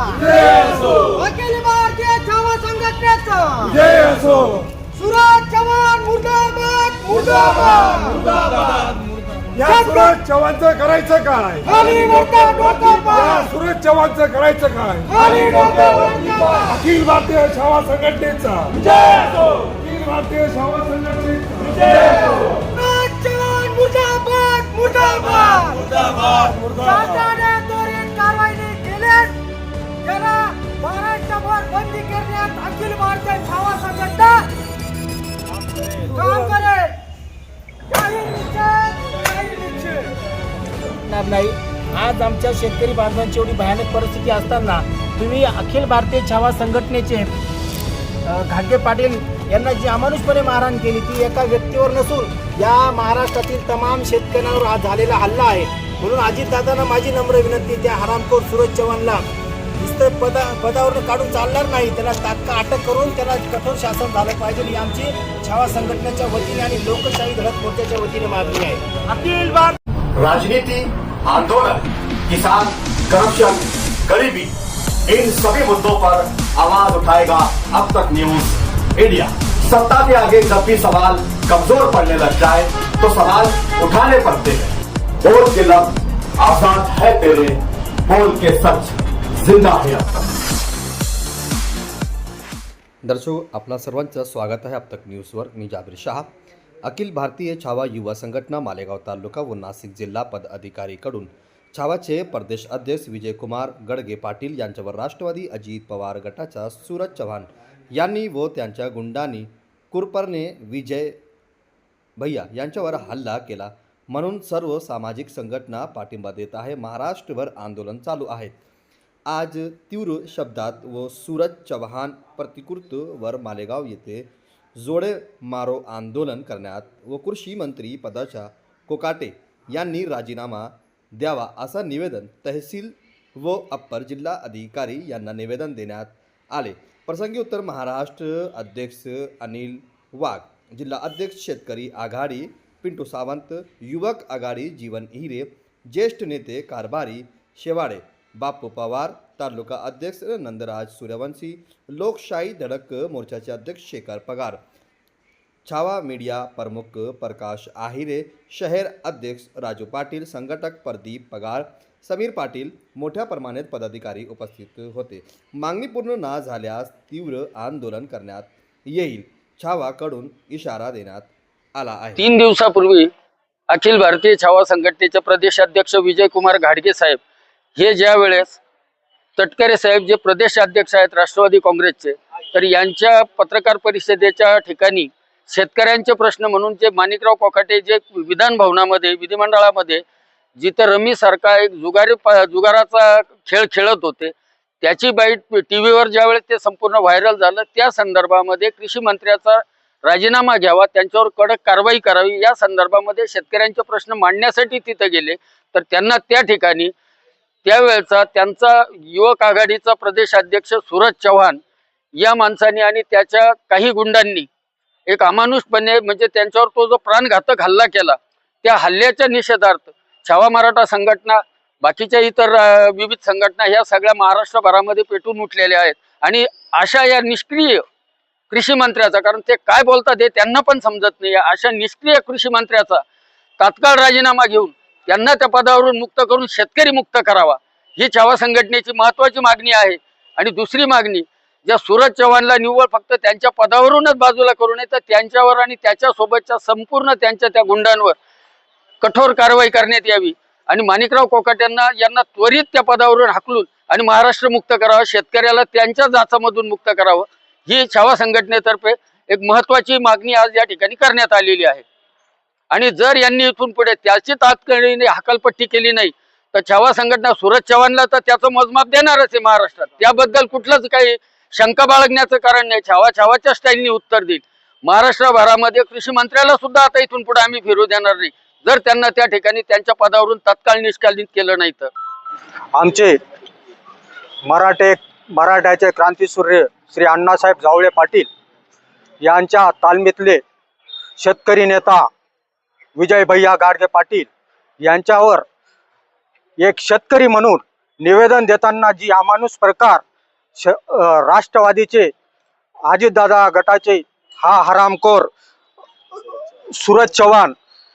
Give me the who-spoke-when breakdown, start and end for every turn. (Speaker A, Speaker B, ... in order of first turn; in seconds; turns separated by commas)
Speaker A: 0.3-0.8, Speaker B: 2.5-3.0, Speaker A: 3.6-4.6, Speaker B: 5.2-5.9, Speaker B: 6.4-7.4, Speaker A: 7.2-7.8, Speaker A: 9.6-22.0, Speaker B: 11.7-12.2, Speaker B: 15.1-15.7, Speaker B: 22.6-26.0, Speaker B: 26.8-29.4, Speaker A: 26.8-27.1, Speaker B: 30.0-34.5, Speaker B: 36.3-37.0, Speaker B: 37.9-40.1, Speaker C: 41.0-47.3, Speaker C: 48.3-59.2, Speaker C: 59.8-69.7, Speaker D: 70.2-74.5, Speaker D: 75.1-90.3, Speaker E: 93.0-96.3, Speaker E: 96.8-111.2, Speaker E: 112.2-118.6, Speaker E: 119.3-154.6, Speaker E: 155.7-172.2, Speaker F: 172.2-173.1, Speaker F: 173.7-177.2, Speaker F: 177.8-178.6, Speaker F: 179.4-190.0, Speaker F: 190.6-206.9, Speaker F: 207.7-211.6, Speaker F: 212.2-214.5, Speaker F: 215.1-227.8, Speaker F: 228.5-233.0, Speaker F: 233.6-248.2, Speaker F: 249.0-261.8, Speaker F: 262.7-281.9, Speaker G: 282.8-283.2, Speaker G: 284.5-288.3, Speaker G: 289.2-290.4, Speaker G: 291.2-292.1, Speaker G: 293.0-294.3, Speaker G: 294.8-295.4, Speaker G: 296.6-300.0, Speaker G: 300.6-302.1, Speaker G: 302.9-305.3, Speaker G: 306.8-307.5